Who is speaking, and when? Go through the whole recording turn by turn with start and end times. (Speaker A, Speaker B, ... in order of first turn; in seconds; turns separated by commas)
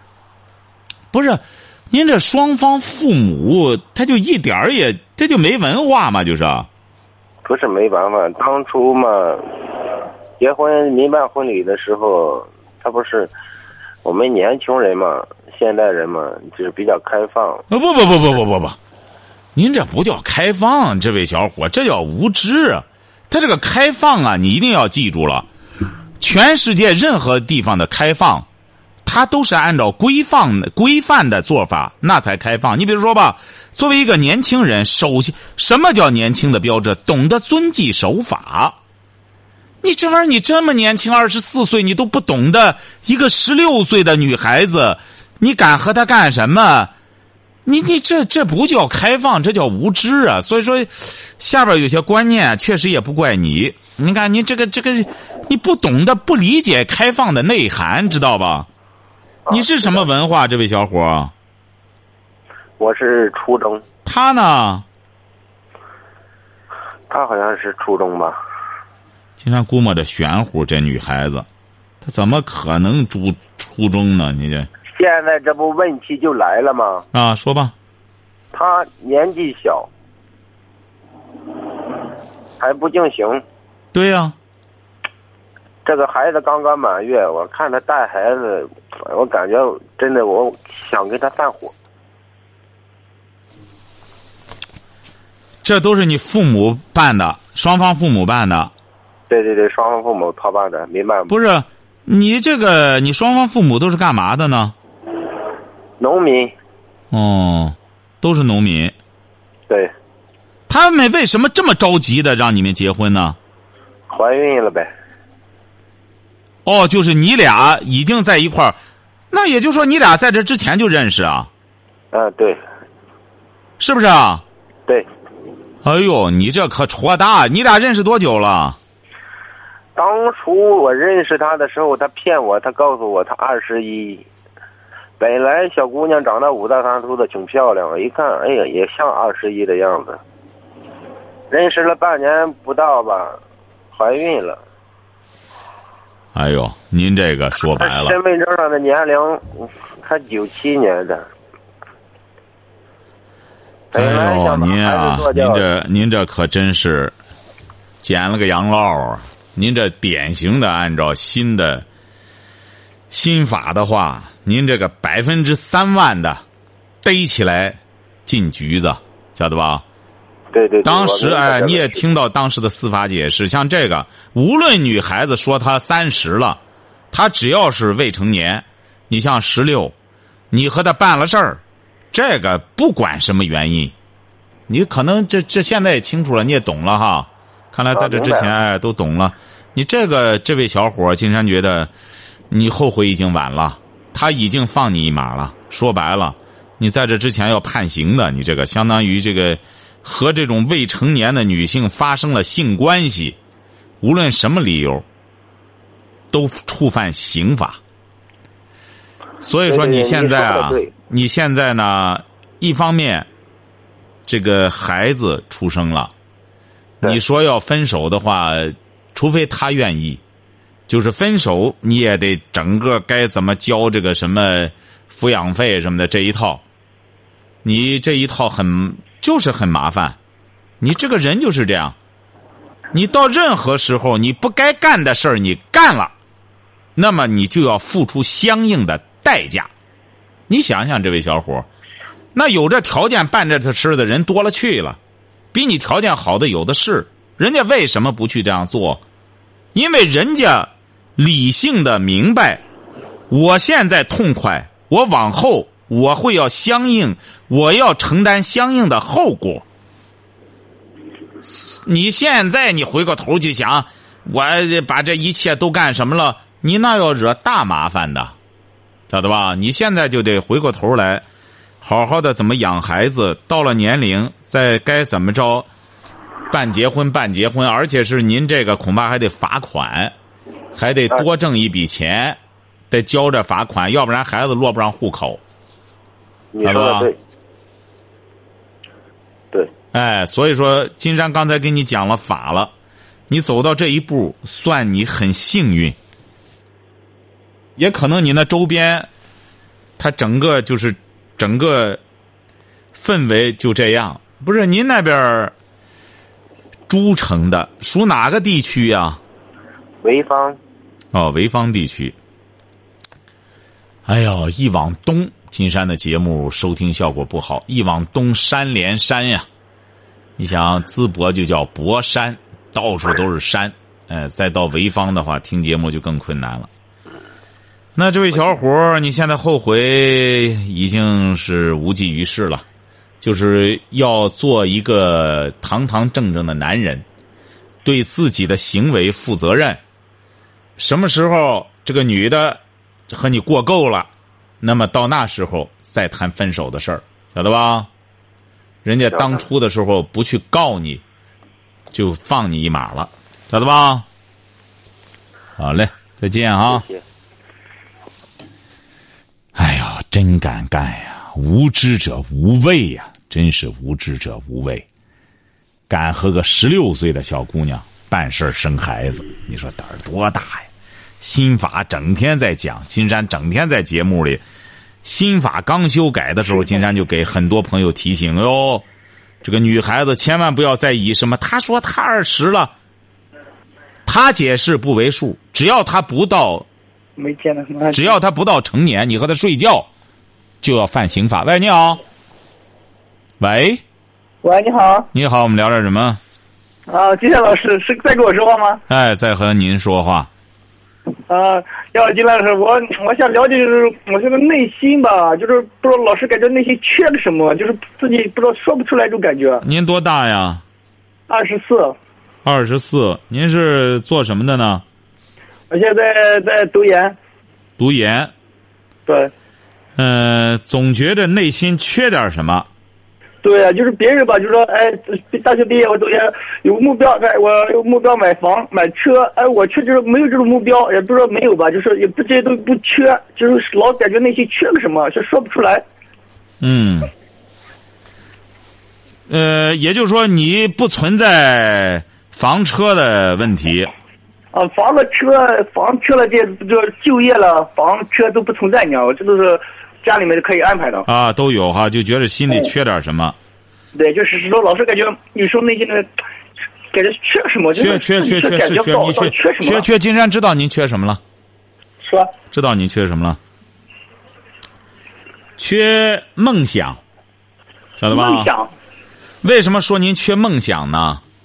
Speaker A: 1.1-6.7, Speaker B: 7.5-13.3, Speaker B: 14.0-17.6, Speaker A: 17.7-18.8, Speaker A: 19.6-25.5, Speaker A: 26.2-28.5, Speaker A: 29.1-38.8, Speaker A: 39.8-46.9, Speaker A: 47.6-58.7, Speaker B: 59.5-60.0, Speaker A: 59.5-61.3, Speaker B: 62.8-63.8, Speaker A: 64.1-64.8, Speaker B: 67.1-68.4, Speaker A: 69.4-71.5, Speaker A: 72.0-74.7, Speaker B: 74.9-77.1, Speaker A: 77.1-77.7, Speaker B: 78.5-79.9, Speaker B: 82.6-83.4, Speaker A: 83.9-84.3, Speaker B: 85.8-91.7, Speaker A: 95.6-98.7, Speaker B: 99.3-101.3, Speaker A: 101.3-104.8, Speaker B: 106.0-106.5, Speaker A: 107.1-109.0, Speaker A: 110.7-113.4, Speaker B: 114.1-114.9, Speaker A: 116.7-118.8, Speaker A: 119.3-121.5, Speaker B: 122.1-122.6, Speaker A: 123.8-124.4, Speaker A: 125.8-128.8, Speaker B: 130.0-134.2, Speaker B: 135.2-140.2, Speaker B: 141.5-143.4, Speaker B: 143.9-144.6, Speaker A: 146.3-148.2, Speaker B: 147.8-151.3, Speaker B: 153.9-155.6, Speaker A: 153.9-157.2, Speaker A: 158.0-161.9, Speaker A: 163.1-166.4, Speaker A: 167.0-169.8, Speaker B: 170.5-172.0, Speaker A: 170.8-176.6, Speaker A: 177.1-179.9, Speaker A: 180.5-181.6, Speaker A: 182.1-183.9, Speaker A: 184.7-191.9, Speaker B: 187.9-188.5, Speaker A: 192.5-203.4, Speaker A: 204.0-205.1, Speaker A: 206.3-207.8, Speaker A: 209.4-213.3, Speaker B: 209.7-210.9, Speaker A: 214.3-216.1, Speaker A: 217.0-220.2, Speaker A: 220.9-226.6, Speaker A: 227.6-230.2, Speaker A: 230.8-232.0, Speaker A: 232.9-236.1, Speaker A: 237.0-239.7, Speaker A: 240.5-241.7, Speaker A: 242.3-245.0, Speaker A: 245.5-249.0, Speaker A: 249.7-252.6, Speaker A: 253.3-259.6, Speaker A: 261.4-268.3, Speaker A: 269.1-271.2, Speaker A: 271.8-275.7, Speaker A: 276.5-280.1, Speaker A: 280.8-282.4, Speaker A: 282.9-285.4, Speaker B: 286.5-287.2, Speaker A: 286.6-287.1, Speaker A: 289.9-292.7, Speaker A: 293.3-296.0, Speaker A: 297.8-299.1, Speaker A: 300.0-302.0, Speaker A: 302.9-305.5, Speaker A: 306.9-309.2, Speaker B: 310.0-310.6, Speaker A: 311.1-312.2, Speaker A: 314.1-319.5, Speaker A: 320.4-326.7, Speaker A: 327.9-332.6, Speaker A: 333.2-337.1, Speaker A: 337.8-339.8, Speaker A: 340.8-344.1, Speaker A: 344.6-347.9, Speaker A: 348.9-351.0, Speaker A: 351.9-354.1, Speaker A: 355.6-356.9, Speaker B: 356.7-357.0, Speaker A: 359.6-364.9, Speaker A: 365.9-370.7, Speaker A: 371.2-374.4, Speaker A: 375.0-378.9, Speaker A: 379.4-382.7, Speaker A: 384.1-386.7, Speaker C: 387.2-388.2, Speaker A: 387.9-389.9, Speaker A: 390.6-392.0, Speaker A: 393.4-393.8, Speaker C: 394.4-395.1, Speaker A: 395.1-396.2, Speaker C: 396.9-398.8, Speaker A: 398.9-400.3, Speaker C: 401.3-409.6, Speaker A: 409.6-410.6, Speaker C: 411.3-412.0, Speaker A: 412.4-414.8, Speaker C: 415.7-417.2, Speaker A: 417.8-418.3, Speaker C: 419.1-419.3, Speaker A: 420.0-422.7, Speaker C: 423.4-435.9, Speaker A: 436.6-437.1, Speaker A: 439.3-443.9, Speaker C: 444.5-451.1, Speaker A: 451.1-453.4, Speaker C: 453.9-456.1, Speaker C: 456.9-459.9, Speaker A: 457.8-461.2, Speaker C: 462.0-462.3, Speaker A: 462.5-463.4, Speaker A: 465.6-467.0, Speaker A: 468.0-468.5, Speaker C: 468.1-468.7, Speaker A: 469.4-471.2